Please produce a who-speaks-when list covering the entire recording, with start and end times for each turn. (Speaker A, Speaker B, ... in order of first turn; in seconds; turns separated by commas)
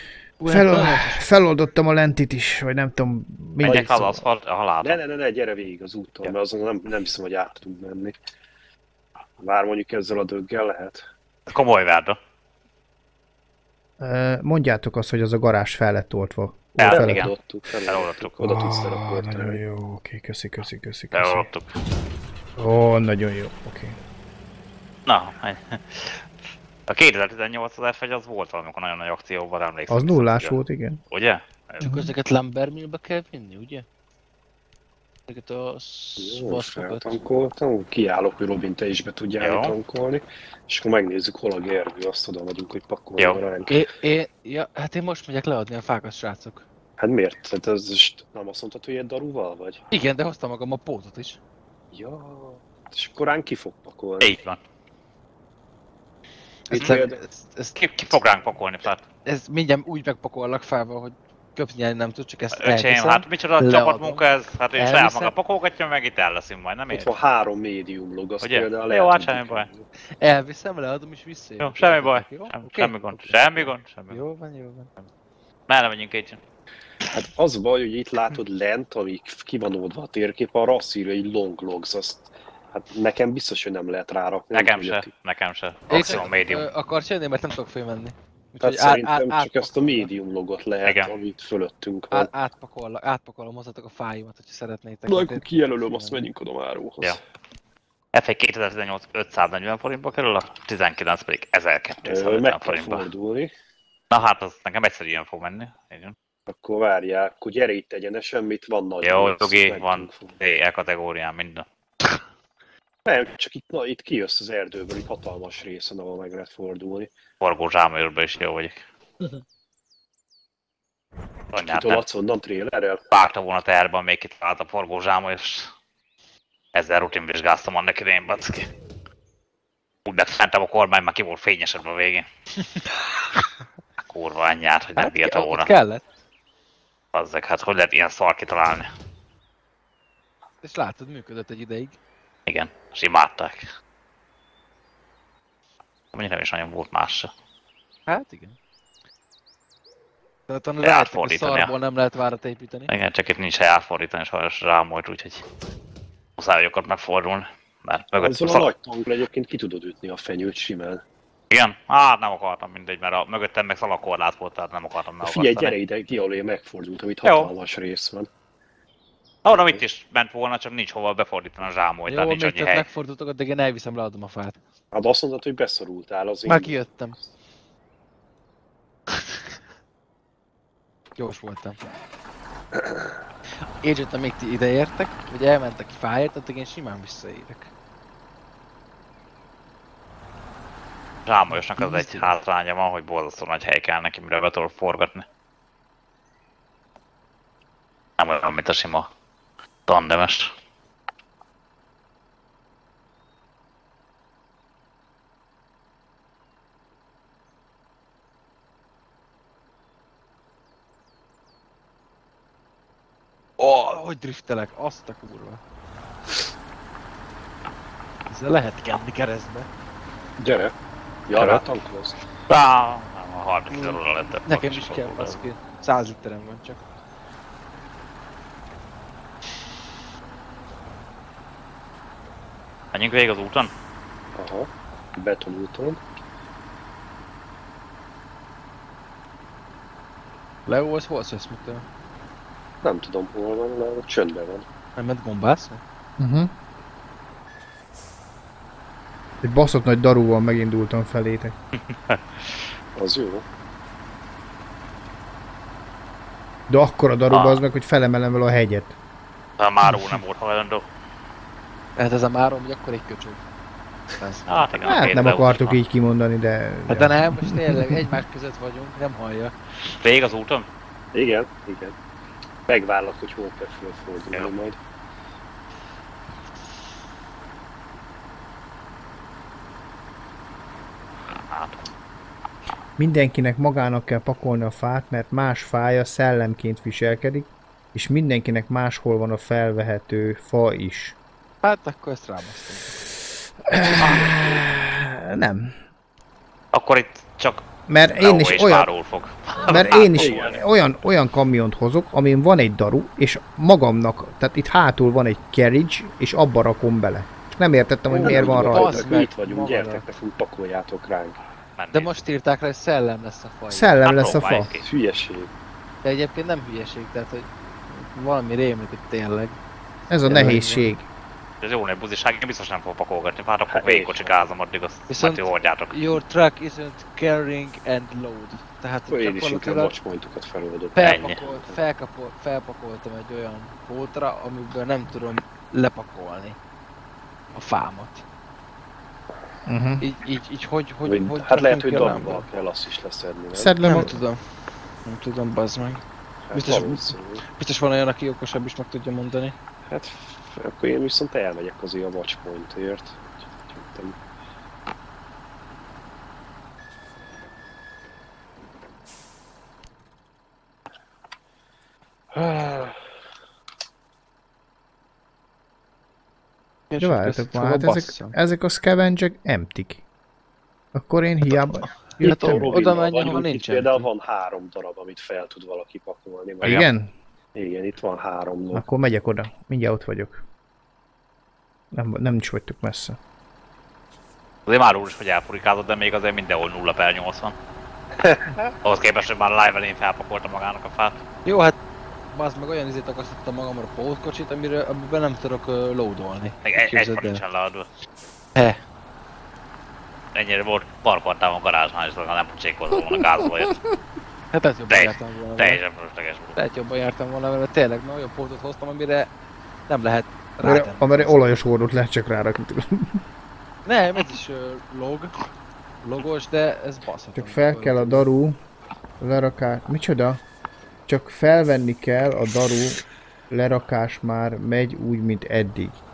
Speaker A: 0.4-1.2, Speaker B: 0.5-4.2, Speaker C: 3.6-5.0, Speaker D: 4.8-8.2, Speaker D: 9.4-11.0, Speaker C: 11.5-12.2, Speaker B: 14.0-17.3, Speaker C: 16.8-17.3, Speaker D: 16.9-19.6, Speaker C: 17.9-18.3, Speaker B: 18.4-21.5, Speaker C: 21.1-21.7, Speaker B: 22.6-24.0, Speaker C: 25.1-26.2, Speaker C: 26.9-30.6, Speaker B: 29.9-31.0, Speaker C: 31.1-31.9, Speaker B: 31.8-32.1, Speaker A: 31.8-33.9, Speaker A: 35.3-37.1, Speaker D: 36.2-43.8, Speaker C: 39.4-39.8, Speaker A: 43.7-46.6, Speaker D: 47.0-49.8, Speaker A: 49.9-51.4, Speaker D: 51.9-54.4, Speaker C: 54.2-54.6, Speaker A: 56.7-57.8, Speaker D: 56.7-57.2, Speaker C: 57.8-59.0, Speaker A: 59.3-64.2, Speaker C: 62.5-67.1, Speaker A: 64.8-65.3, Speaker D: 66.9-69.9, Speaker C: 68.4-69.7, Speaker A: 70.2-74.9, Speaker C: 71.6-74.2, Speaker C: 75.7-76.4, Speaker D: 77.1-85.1, Speaker C: 84.5-86.7, Speaker A: 85.9-90.1, Speaker D: 86.0-86.3, Speaker D: 88.6-92.3, Speaker C: 90.8-91.1, Speaker A: 92.1-96.3, Speaker D: 95.1-97.2, Speaker C: 98.1-103.1, Speaker D: 102.0-103.5, Speaker C: 104.1-106.2, Speaker D: 106.5-110.4, Speaker C: 109.0-112.2, Speaker D: 113.0-117.1, Speaker C: 117.4-118.8, Speaker C: 121.5-122.0, Speaker D: 121.7-123.0, Speaker C: 123.1-125.7, Speaker C: 126.7-128.7, Speaker C: 130.1-132.3, Speaker C: 134.0-135.7, Speaker A: 135.0-136.0, Speaker C: 137.1-138.9, Speaker A: 140.6-142.0, Speaker C: 142.5-143.7, Speaker C: 146.1-147.3, Speaker A: 148.1-148.6, Speaker A: 150.5-152.9, Speaker C: 150.8-151.7, Speaker C: 152.9-155.4, Speaker C: 156.4-158.7, Speaker D: 158.2-161.0, Speaker C: 161.5-165.8, Speaker D: 165.2-168.3, Speaker C: 167.2-167.5, Speaker C: 169.4-172.8, Speaker A: 172.1-174.6, Speaker D: 174.9-176.8, Speaker A: 176.4-177.2, Speaker A: 181.2-181.8, Speaker D: 182.8-183.1, Speaker A: 183.6-187.7, Speaker C: 191.3-195.2, Speaker A: 191.5-192.4, Speaker C: 198.2-199.1, Speaker C: 199.9-200.5, Speaker A: 213.6-215.6, Speaker A: 218.3-219.7, Speaker D: 220.4-220.7, Speaker D: 221.3-222.2, Speaker C: 221.3-221.6, Speaker C: 222.5-225.4, Speaker A: 223.7-226.8, Speaker C: 232.9-233.7, Speaker D: 234.3-236.0, Speaker A: 240.7-241.8, Speaker D: 242.8-244.7, Speaker A: 245.0-245.8, Speaker B: 246.2-246.5, Speaker B: 249.4-251.6, Speaker C: 251.8-252.6, Speaker D: 253.0-253.5, Speaker B: 256.7-259.0, Speaker C: 257.3-257.6, Speaker C: 259.6-260.8, Speaker B: 259.9-260.1, Speaker A: 262.0-263.4, Speaker A: 264.2-265.1, Speaker C: 264.5-265.8, Speaker B: 264.9-268.2, Speaker A: 266.9-269.5, Speaker C: 269.9-270.7, Speaker D: 271.1-271.9, Speaker D: 272.7-274.8, Speaker C: 281.5-281.9, Speaker B: 283.0-291.2, Speaker A: 291.6-293.0, Speaker B: 293.6-295.8, Speaker A: 294.0-294.4, Speaker C: 296.7-297.7, Speaker B: 297.9-298.9, Speaker C: 298.2-300.5, Speaker B: 299.6-309.1, Speaker A: 299.7-300.1, Speaker D: 299.7-300.6, Speaker D: 308.1-311.4, Speaker A: 308.2-310.1, Speaker C: 311.8-312.2, Speaker A: 311.9-314.0, Speaker B: 313.7-314.7, Speaker C: 314.1-314.9, Speaker D: 314.8-315.5, Speaker A: 316.0-319.6, Speaker B: 320.1-321.1, Speaker A: 320.3-320.9, Speaker C: 321.6-326.0, Speaker D: 323.7-324.3, Speaker A: 325.1-329.9, Speaker D: 329.1-331.8, Speaker A: 330.9-336.6, Speaker C: 331.0-331.4, Speaker A: 337.6-338.2, Speaker B: 339.7-340.1, Speaker A: 340.0-342.5, Speaker D: 341.1-343.8, Speaker B: 343.5-344.2, Speaker A: 343.8-344.4, Speaker A: 345.1-349.6, Speaker D: 346.5-347.4, Speaker D: 349.9-354.2, Speaker D: 362.3-363.0, Speaker A: 366.9-368.4, Speaker B: 367.0-370.0, Speaker B: 370.9-372.8, Speaker A: 371.8-374.1, Speaker D: 372.2-376.9, Speaker B: 376.6-377.1, Speaker D: 377.6-378.9, Speaker B: 378.7-380.4, Speaker B: 381.9-383.2, Speaker C: 384.7-387.6, Speaker D: 388.2-388.7, Speaker C: 388.8-391.2, Speaker A: 391.4-391.8, Speaker A: 392.3-397.4, Speaker C: 396.6-397.9, Speaker C: 400.4-403.8, Speaker B: 403.0-403.7, Speaker A: 404.5-405.8, Speaker C: 404.9-406.6, Speaker A: 406.6-409.3, Speaker A: 409.9-411.4, Speaker B: 410.6-413.2, Speaker A: 413.9-415.3, Speaker A: 416.0-418.3, Speaker B: 417.4-418.6, Speaker B: 419.2-420.4, Speaker B: 421.1-426.0